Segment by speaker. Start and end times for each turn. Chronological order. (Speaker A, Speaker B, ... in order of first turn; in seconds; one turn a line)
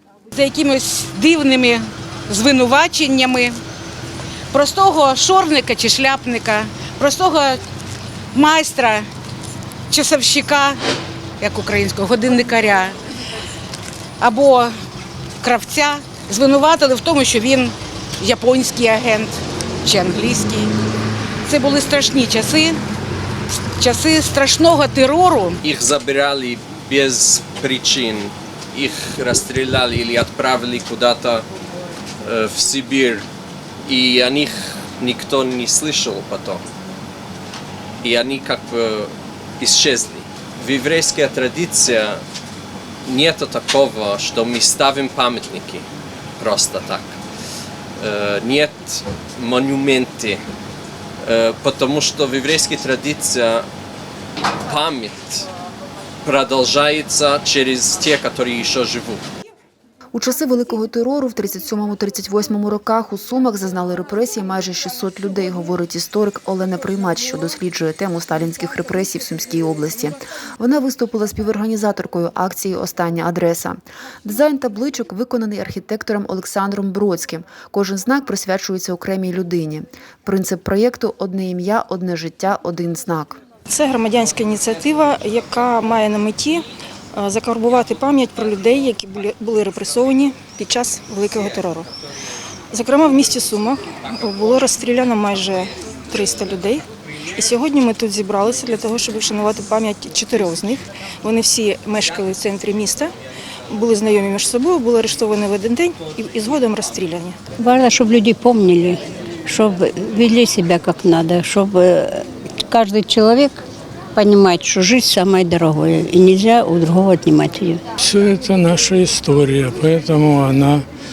Speaker A: 0.3-3.6
Speaker A: 4.5-7.6
Speaker A: 8.3-9.1
Speaker A: 9.9-10.8
Speaker A: 11.4-13.0
Speaker A: 14.2-14.7
Speaker A: 15.4-20.7
Speaker A: 21.4-22.8
Speaker A: 23.8-25.6
Speaker B: 25.6-31.4
Speaker B: 32.2-33.2
Speaker B: 33.9-36.6
Speaker B: 38.0-42.2
Speaker B: 43.0-45.9
Speaker B: 46.4-47.2
Speaker B: 48.0-50.4
Speaker B: 51.2-53.7
Speaker B: 54.6-55.5
Speaker B: 56.2-59.2
Speaker C: 60.1-83.4
Speaker D: 83.7-91.9
Speaker D: 92.7-103.1
Speaker D: 103.7-107.4
Speaker E: 107.6-113.6
Speaker E: 114.1-117.8
Speaker F: 118.0-120.8